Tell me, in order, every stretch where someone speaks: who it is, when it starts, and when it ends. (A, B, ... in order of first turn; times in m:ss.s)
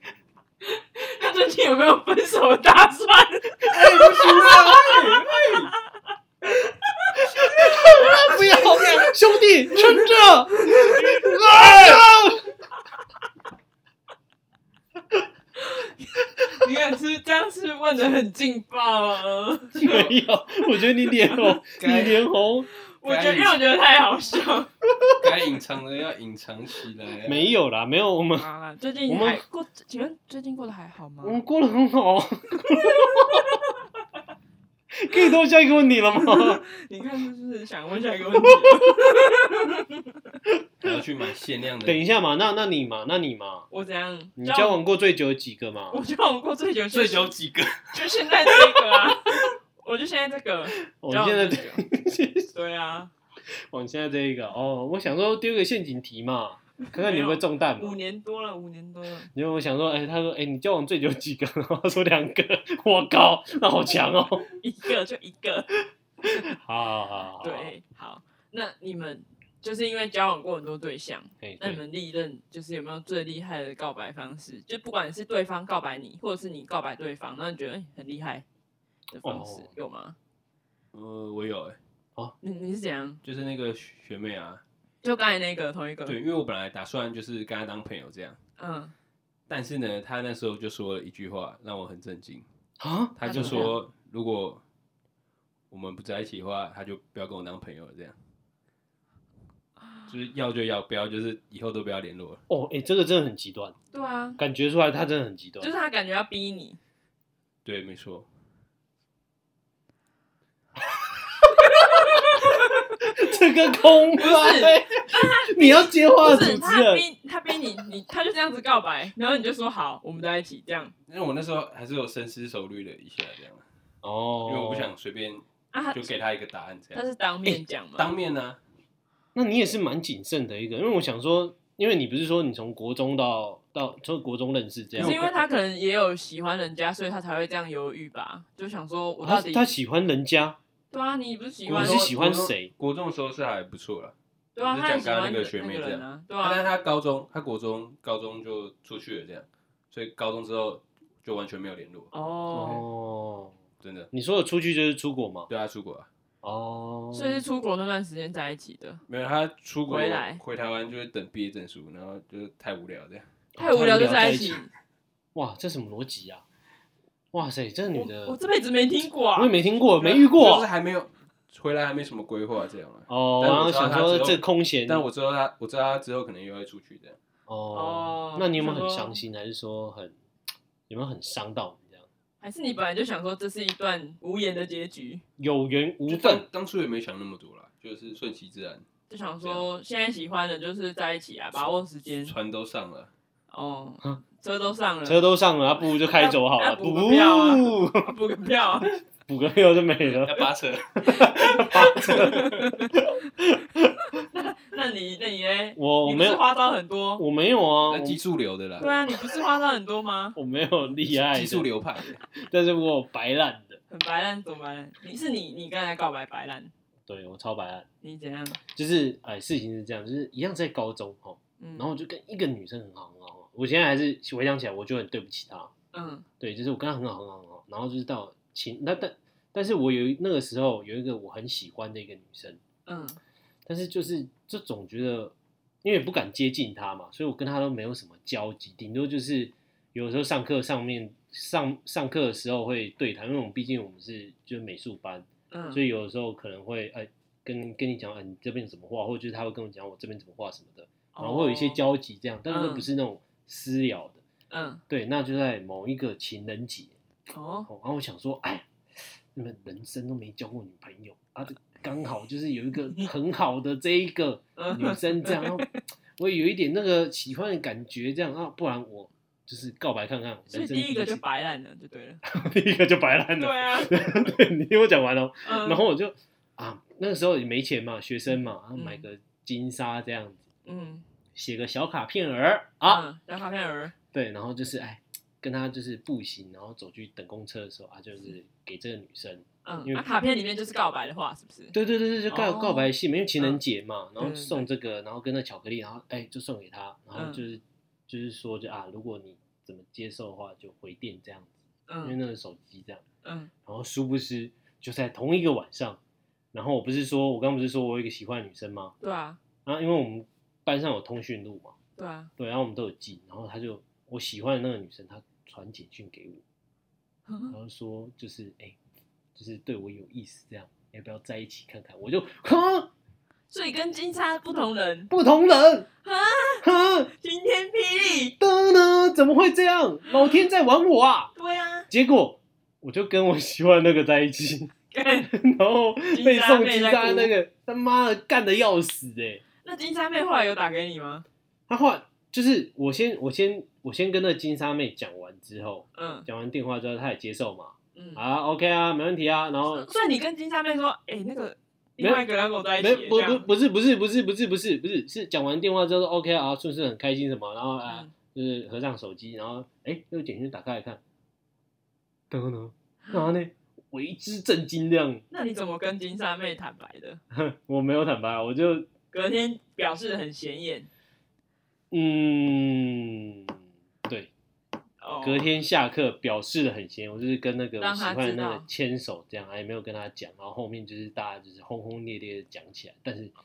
0:00.6-0:05.4 A
0:03.7-0:05.0 B
0:03.7-0:05.7 C
0:06.6-0:09.0 A
0:07.2-0:12.5 B
0:10.6-0:11.4 A
0:11.5-0:12.0 C
0:15.6-0:20.1 A
0:16.4-0:16.7 B
0:19.8-0:22.7 B
0:21.2-0:21.6 A
0:21.8-0:22.3 C
0:22.7-0:24.7 A
0:23.0-0:23.6 C
0:25.2-0:27.4 C
0:27.2-0:28.5 B
0:28.4-0:31.4 A
0:29.1-0:29.4 B
0:31.2-0:33.6 B
0:32.8-0:33.6 A
0:34.9-0:36.6 B
0:36.2-0:40.3 A
0:38.4-0:39.3 B
0:40.5-0:41.0 B
0:40.8-0:42.0 C
0:41.8-0:43.7 B
0:43.7-0:44.8 A
0:44.4-0:46.0 B
0:45.9-0:47.3 A
0:46.9-0:48.6 C
0:47.9-0:51.8 A
0:51.0-0:52.5 B
0:52.5-0:53.1 A
0:53.5-0:58.0 B
0:56.8-0:59.3 A
0:59.3-1:04.5 B
1:04.6-1:05.7 A
1:06.2-1:07.7 B
1:07.4-1:18.4 A
1:11.4-1:11.8 B
1:19.1-1:20.2 A
1:19.2-1:19.7 B
1:20.9-1:21.8 C
1:22.4-1:23.2 A
1:23.2-1:24.6 C
1:25.0-1:26.2 A
1:26.1-1:28.4 C
1:28.6-1:28.9 A
1:29.5-1:32.4 C
1:32.8-1:33.7 B
1:33.2-1:34.6 C
1:33.2-1:33.8 A
1:35.7-1:38.2 C
1:40.1-1:42.4 C
1:42.5-1:43.8 B
1:43.9-1:44.4 A
1:44.4-1:45.7 B
1:45.6-1:46.8 A
1:47.6-1:48.3 C
1:51.4-1:57.1 B
1:51.6-1:52.8 A
1:54.1-2:00.9 A
2:01.1-2:03.6 C
2:04.0-2:04.9 B
2:04.4-2:08.6 C
2:05.7-2:06.1 A
2:07.0-2:08.1 A
2:09.4-2:15.3 B
2:14.9-2:15.3 C
2:15.0-2:19.7 A
2:19.2-2:20.6 B
2:20.9-2:22.1 A
2:21.7-2:22.7 B
2:21.7-2:32.1 C
2:24.6-2:26.7 A
2:32.1-2:32.8 A
2:32.5-2:33.6 B
2:33.8-2:34.1 C
2:34.1-2:35.5 B
2:35.5-2:36.1 C
2:36.4-2:37.4 B
2:37.1-2:39.0 A
2:39.1-2:43.3 C
2:39.9-2:40.4 A
2:43.6-2:44.6 B
2:43.6-2:44.7 A
2:43.8-2:44.5 C
2:45.4-2:46.4 B
2:47.3-2:48.4 B
2:47.9-2:49.5 A
2:49.4-2:50.7 B
2:50.0-2:57.2 C
2:53.1-2:55.0 B
2:57.5-3:00.1 B
2:57.7-2:59.2 A
3:00.9-3:02.1 B
3:02.4-3:05.2 A
3:05.4-3:06.4 B
3:06.1-3:08.8 C
3:09.1-3:12.3 A
3:12.2-3:13.1 C
3:13.5-3:15.2 A
3:15.0-3:18.1 B
3:15.9-3:18.9 A
3:19.3-3:20.5 B
3:20.1-3:22.6 C
3:21.1-3:24.0 B
3:21.1-3:23.0 A
3:24.3-3:27.2 A
3:25.8-3:26.4 B
3:27.2-3:28.2 B
3:27.8-3:28.9 C
3:28.8-3:30.4 A
3:30.4-3:31.7 B
3:31.1-3:32.2 C
3:32.3-3:33.8 B
3:33.9-3:36.7 A
3:37.1-3:37.9 B
3:38.0-3:38.6 A
3:38.7-3:45.7 B
3:41.6-3:41.9 A
3:45.9-3:46.3 A
3:46.4-3:52.6 B
3:52.9-3:53.2 A
3:53.7-4:14.2 B
4:05.5-4:05.8 A
4:11.1-4:11.8 A
4:12.5-4:12.9 A
4:14.5-4:14.8 A
4:14.9-4:16.9 B
4:17.3-4:17.7 A
4:17.7-4:18.7 B
4:19.3-4:31.2 B
4:24.6-4:25.7 A
4:30.5-4:32.2 A
4:32.3-4:40.4 B
4:33.4-4:34.1 A
4:35.4-4:35.8 A
4:38.3-4:39.0 A
4:40.6-4:41.0 A
4:41.4-4:43.1 B
4:42.8-4:44.0 A
4:44.1-4:50.0 B
4:49.6-4:51.7 A
4:51.7-5:03.0 B
4:52.3-4:53.6 A
4:54.2-4:54.7 A
4:57.2-4:57.4 A
5:01.9-5:02.2 A
5:03.2-5:03.5 A
5:03.6-5:06.0 B
5:06.5-5:09.0 B
5:09.0-5:09.4 A
5:09.6-5:11.7 B
5:12.0-5:12.3 A
5:12.4-5:16.4 B
5:17.3-5:17.5 A
5:17.5-5:18.8 B
5:19.4-5:22.9 B
5:23.5-5:25.1 A
5:25.1-5:25.9 B
5:26.0-5:26.7 A
5:26.6-5:27.1 B
5:27.2-5:28.4 A
5:28.4-5:31.3 B
5:31.4-5:31.9 A
5:31.9-5:34.7 B
5:34.9-5:35.3 A
5:35.3-5:39.4 B
5:36.1-5:37.3 A
5:39.6-5:41.3 A
5:41.7-5:49.9 B
5:46.0-5:46.3 A
5:48.0-5:48.2 A
5:49.7-5:53.5 A
5:52.8-6:01.0 B
5:57.9-5:58.1 A
6:02.3-6:05.2 B
6:05.3-6:07.2 A
6:07.3-6:08.9 B
6:09.1-6:10.9 A
6:11.9-6:14.3 B
6:15.0-6:15.5 A
6:15.2-6:23.3 B
6:17.8-6:18.7 A